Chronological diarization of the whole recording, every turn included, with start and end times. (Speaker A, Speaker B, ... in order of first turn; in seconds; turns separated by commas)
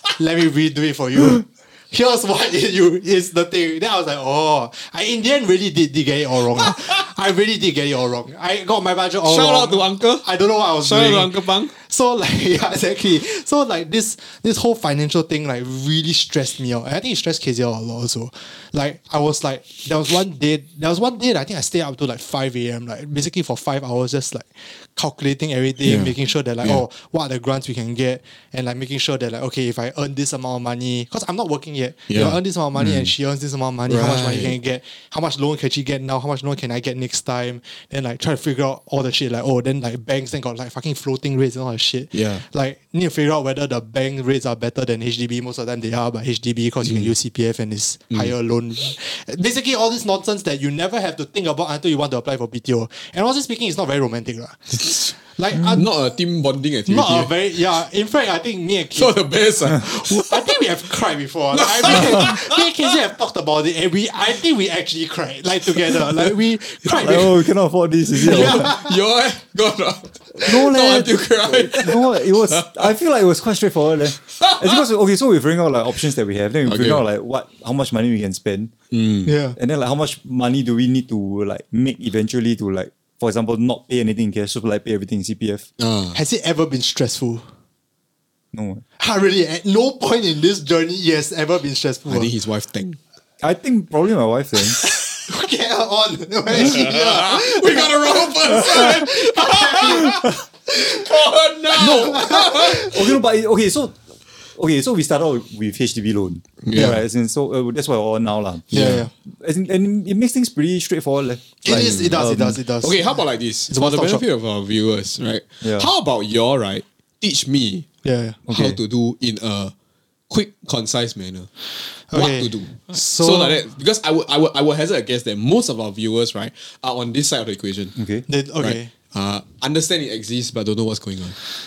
Speaker A: 0.2-55.9, Speaker B: 9.2-10.2, Speaker B: 10.8-11.7, Speaker B: 25.8-26.8, Speaker B: 32.1-33.1, Speaker B: 33.9-34.6, Speaker B: 42.1-42.4, Speaker B: 46.8-47.1, Speaker B: 54.8-55.1, Speaker C: 55.6-55.8, Speaker B: 55.7-57.3, Speaker A: 56.9-59.2, Speaker B: 59.0-60.6, Speaker A: 59.7-67.4, Speaker B: 61.5-63.0, Speaker B: 65.8-66.3, Speaker B: 66.9-67.3, Speaker C: 67.0-68.7, Speaker A: 68.2-69.0, Speaker B: 68.2-72.9, Speaker C: 70.4-78.7, Speaker B: 74.3-74.8, Speaker B: 76.7-77.1, Speaker B: 78.9-79.3, Speaker A: 79.2-79.6, Speaker C: 79.6-85.7, Speaker B: 85.8-86.2, Speaker A: 86.1-87.5, Speaker C: 88.5-88.8, Speaker A: 89.0-92.3, Speaker B: 92.1-93.0, Speaker C: 93.4-94.8, Speaker A: 94.8-103.1, Speaker B: 96.5-100.3, Speaker B: 100.8-103.0, Speaker C: 101.8-104.0, Speaker C: 104.6-112.6, Speaker B: 106.6-107.0, Speaker A: 106.8-107.0, Speaker B: 108.7-109.1, Speaker A: 108.7-109.1, Speaker A: 111.6-114.2, Speaker B: 111.7-112.3, Speaker B: 112.8-117.9, Speaker C: 115.6-115.9, Speaker A: 118.0-118.4, Speaker C: 118.5-118.8, Speaker B: 118.5-119.7, Speaker B: 120.3-121.5, Speaker A: 122.1-123.6, Speaker B: 122.1-128.0, Speaker C: 128.0-128.3, Speaker A: 128.3-128.9, Speaker B: 128.6-131.4